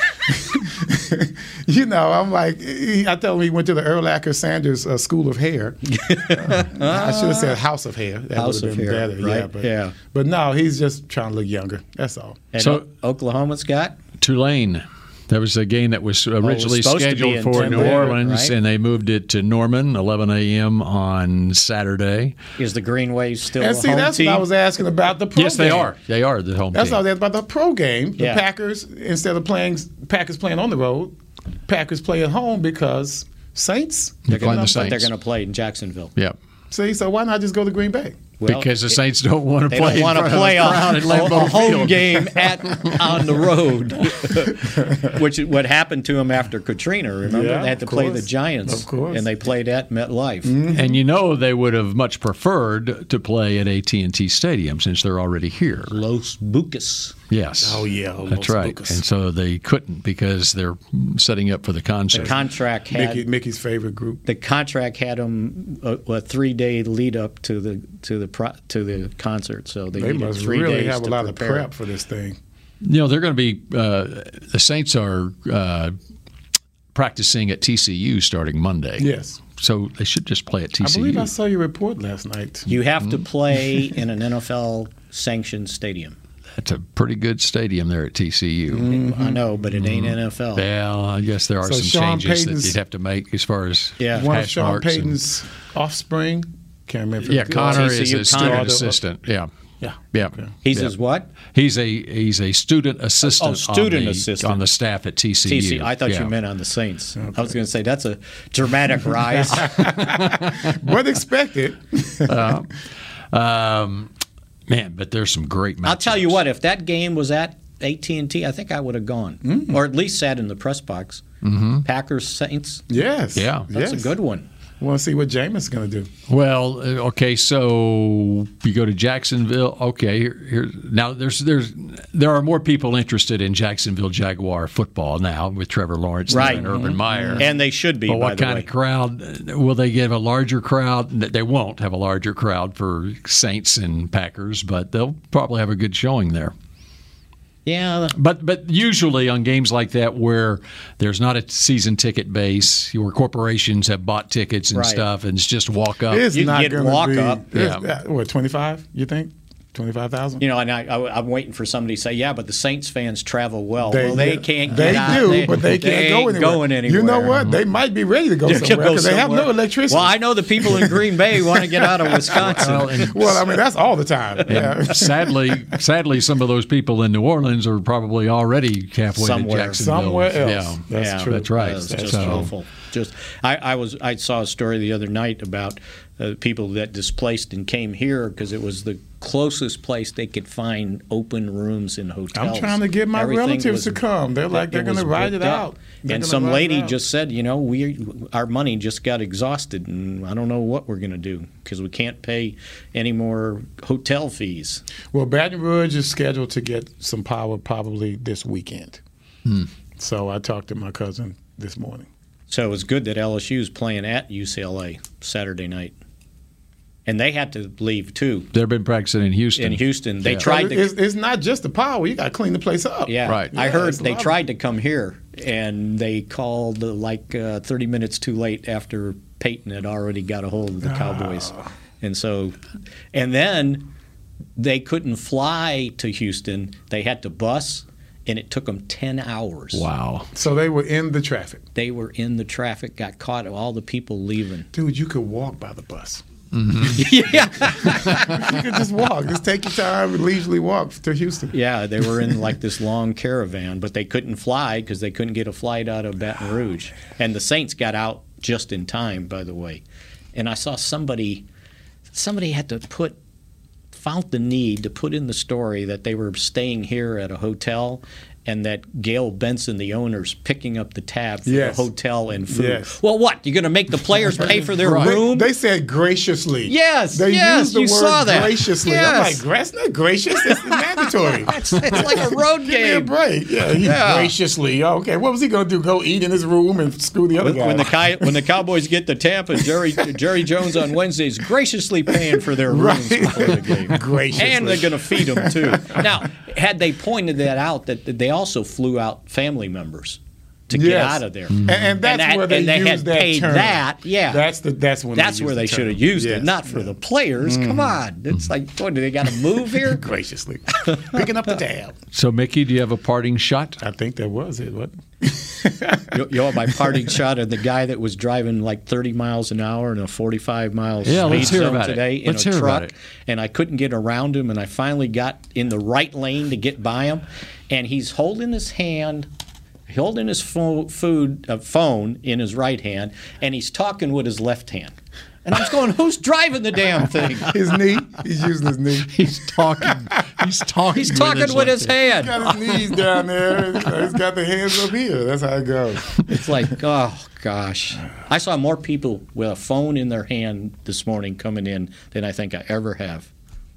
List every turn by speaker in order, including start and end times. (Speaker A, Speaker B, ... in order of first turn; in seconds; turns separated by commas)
Speaker A: 0.3-5.8, Speaker B: 5.8-7.6, Speaker A: 6.3-12.4, Speaker B: 8.3-9.9, Speaker B: 12.5-14.0, Speaker C: 14.2-22.3, Speaker B: 16.4-18.5, Speaker A: 17.5-18.2, Speaker B: 22.6-24.4, Speaker A: 23.6-25.9, Speaker C: 25.4-27.0, Speaker A: 26.7-31.1, Speaker B: 28.2-28.4, Speaker A: 31.7-34.9, Speaker C: 34.2-35.1, Speaker B: 34.3-36.1, Speaker A: 36.7-38.2, Speaker B: 38.4-39.0, Speaker C: 38.4-43.2, Speaker B: 39.7-50.6, Speaker A: 41.3-41.6, Speaker A: 44.6-45.0, Speaker A: 47.2-49.3, Speaker A: 50.4-51.0, Speaker C: 50.7-56.0, Speaker B: 55.9-57.1, Speaker C: 57.3-62.4, Speaker A: 57.6-59.0, Speaker B: 62.1-63.2, Speaker A: 62.9-64.2, Speaker B: 64.2-71.7, Speaker A: 69.9-72.4, Speaker C: 72.8-75.9, Speaker C: 76.9-81.3, Speaker A: 79.0-79.4, Speaker A: 80.8-82.7, Speaker B: 82.7-86.2, Speaker C: 86.6-88.9, Speaker A: 88.7-89.4, Speaker B: 88.9-90.6, Speaker C: 89.7-95.2, Speaker A: 91.6-92.8, Speaker B: 94.0-94.3, Speaker A: 94.1-99.0, Speaker C: 97.3-99.5, Speaker B: 97.4-98.9, Speaker A: 99.8-100.5, Speaker C: 100.1-100.9, Speaker B: 100.6-101.3, Speaker C: 101.4-106.3, Speaker B: 103.2-104.6, Speaker B: 105.5-109.8, Speaker A: 109.3-112.6, Speaker C: 112.2-112.7, Speaker C: 113.3-114.1, Speaker C: 114.7-116.4, Speaker B: 115.8-121.2, Speaker A: 119.5-119.8, Speaker C: 121.4-121.8, Speaker B: 121.8-122.8, Speaker A: 122.9-124.1, Speaker C: 123.3-123.7, Speaker B: 123.7-124.5, Speaker A: 124.8-126.1, Speaker C: 126.3-137.5, Speaker B: 136.3-136.8, Speaker A: 136.3-137.4, Speaker B: 137.4-138.7, Speaker C: 138.1-146.5, Speaker B: 147.7-148.1, Speaker C: 148.1-156.3, Speaker B: 154.7-155.0, Speaker A: 156.1-160.4, Speaker B: 156.3-157.5, Speaker C: 157.5-157.9, Speaker B: 160.4-167.3, Speaker A: 163.8-175.6, Speaker C: 167.3-167.6, Speaker B: 168.4-172.9, Speaker C: 172.4-173.4, Speaker C: 174.5-182.5, Speaker B: 179.2-179.8, Speaker A: 179.8-182.5, Speaker B: 180.9-194.0, Speaker A: 192.3-197.0, Speaker B: 194.5-204.8, Speaker A: 205.1-209.0, Speaker A: 210.0-212.1, Speaker B: 212.5-215.9, Speaker B: 217.1-218.5, Speaker C: 218.5-220.4, Speaker B: 219.6-220.9, Speaker A: 220.3-224.4, Speaker B: 223.1-232.6, Speaker C: 223.2-223.5, Speaker A: 230.8-231.6, Speaker B: 233.1-233.9, Speaker B: 234.6-239.8, Speaker C: 239.7-240.3, Speaker A: 240.3-241.6, Speaker B: 241.7-244.7, Speaker A: 244.7-246.2, Speaker C: 246.6-247.0, Speaker B: 246.9-248.5, Speaker A: 247.7-251.5, Speaker B: 251.5-259.8, Speaker B: 260.3-261.4, Speaker B: 262.1-263.2, Speaker B: 263.9-275.5, Speaker A: 271.4-271.9, Speaker A: 272.5-272.9, Speaker A: 274.5-288.2, Speaker C: 274.8-275.1, Speaker B: 276.7-279.4, Speaker B: 281.4-283.1, Speaker B: 283.8-284.3, Speaker B: 287.4-304.4, Speaker A: 292.5-296.0, Speaker A: 300.7-308.0, Speaker C: 301.5-301.9, Speaker B: 305.1-310.0, Speaker A: 309.7-311.9, Speaker B: 310.9-311.2, Speaker C: 312.1-313.8, Speaker A: 313.8-316.1, Speaker B: 316.1-329.3, Speaker C: 321.0-322.9, Speaker B: 329.9-337.5, Speaker A: 337.5-340.0, Speaker C: 339.1-341.9, Speaker B: 340.9-342.5, Speaker A: 342.1-346.2, Speaker B: 346.3-353.3